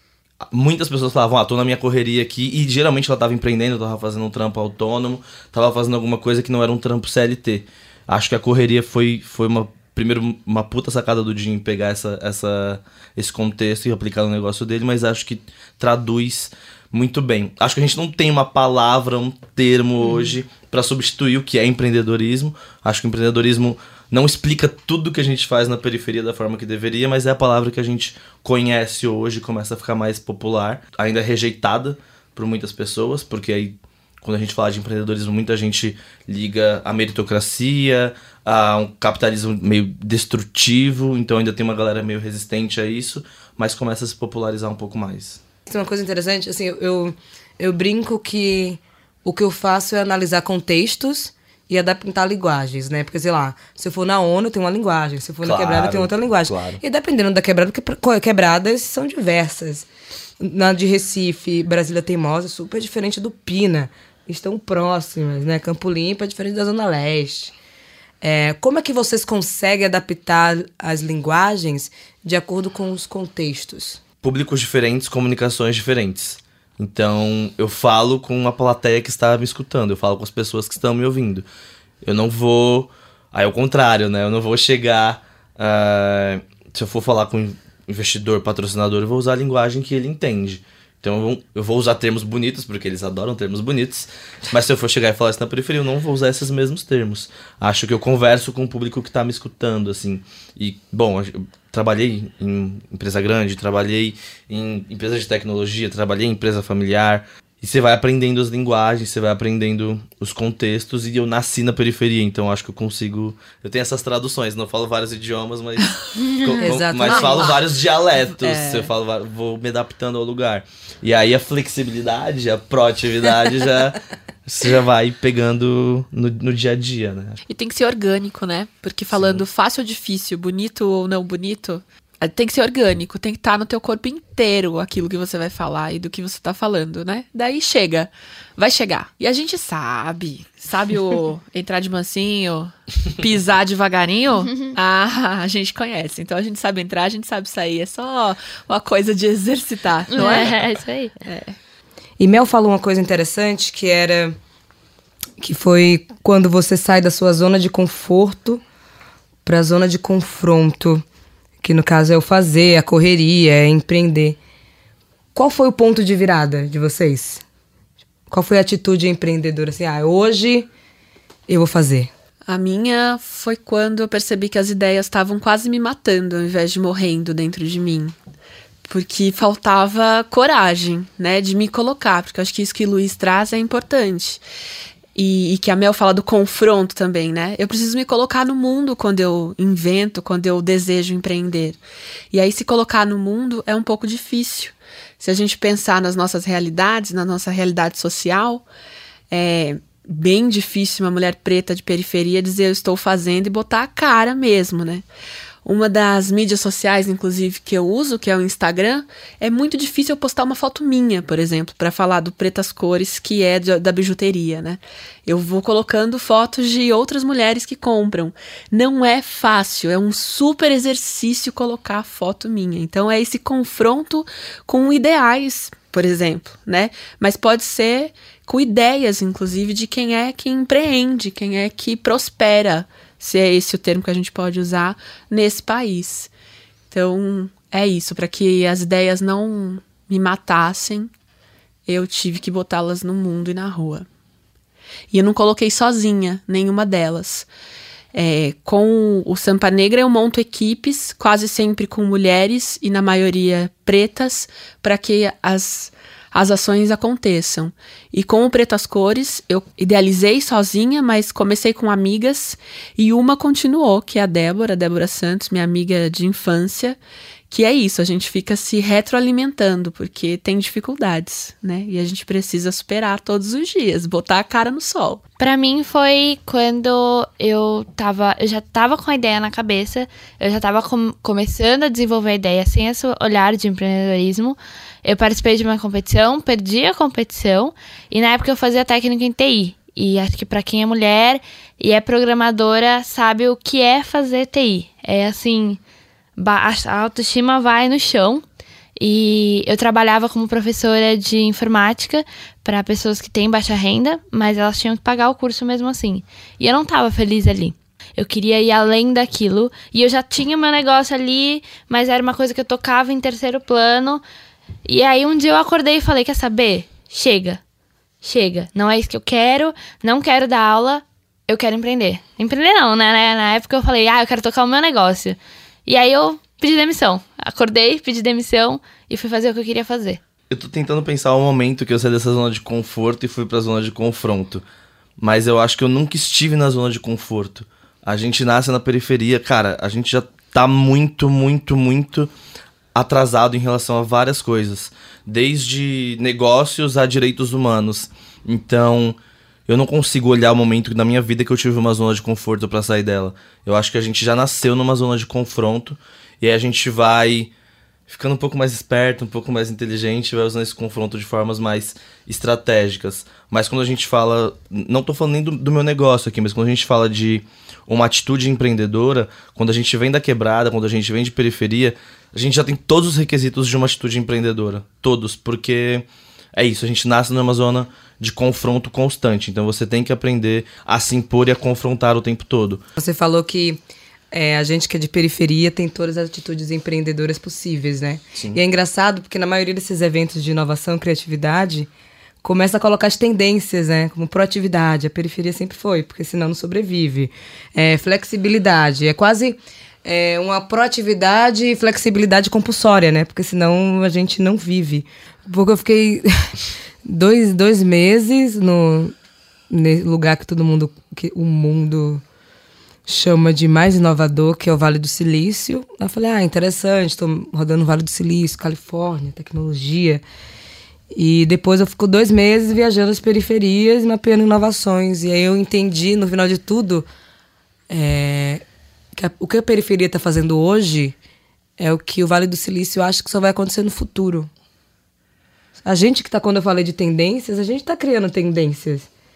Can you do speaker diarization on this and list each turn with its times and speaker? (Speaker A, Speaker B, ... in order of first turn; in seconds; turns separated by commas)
Speaker A: 0.5-45.4, Speaker B: 20.1-20.3, Speaker C: 45.7-59.9, Speaker A: 55.4-56.8, Speaker C: 60.4-67.5, Speaker C: 68.2-74.0, Speaker A: 74.2-81.5, Speaker A: 82.0-127.4, Speaker C: 116.6-117.5, Speaker B: 118.4-118.9, Speaker B: 127.5-150.6, Speaker A: 129.1-129.4, Speaker D: 150.1-151.1, Speaker B: 151.2-151.6, Speaker C: 152.2-154.3, Speaker C: 155.4-158.6, Speaker C: 159.4-161.0, Speaker C: 161.6-164.4, Speaker C: 165.3-167.4, Speaker C: 168.3-170.7, Speaker C: 171.5-172.1, Speaker B: 172.5-178.1, Speaker B: 178.8-184.4, Speaker B: 185.2-191.8, Speaker B: 192.3-198.6, Speaker B: 199.3-205.0, Speaker B: 205.6-236.3, Speaker B: 236.9-241.1, Speaker B: 241.9-244.1, Speaker B: 245.1-247.5, Speaker B: 248.1-267.0, Speaker B: 267.5-275.2, Speaker D: 275.4-295.8, Speaker D: 296.4-298.4, Speaker D: 299.0-314.2, Speaker D: 314.8-317.6, Speaker D: 318.2-330.2, Speaker A: 330.5-334.6, Speaker A: 335.2-342.3, Speaker A: 342.9-349.1, Speaker A: 349.7-357.5, Speaker A: 358.1-382.8, Speaker C: 383.0-383.8, Speaker C: 384.3-391.9, Speaker C: 392.4-406.3, Speaker C: 407.0-409.1, Speaker C: 409.7-412.2, Speaker C: 413.1-420.2, Speaker C: 421.1-427.1, Speaker C: 427.9-428.6, Speaker C: 429.1-431.1, Speaker C: 431.8-434.5, Speaker C: 435.8-439.1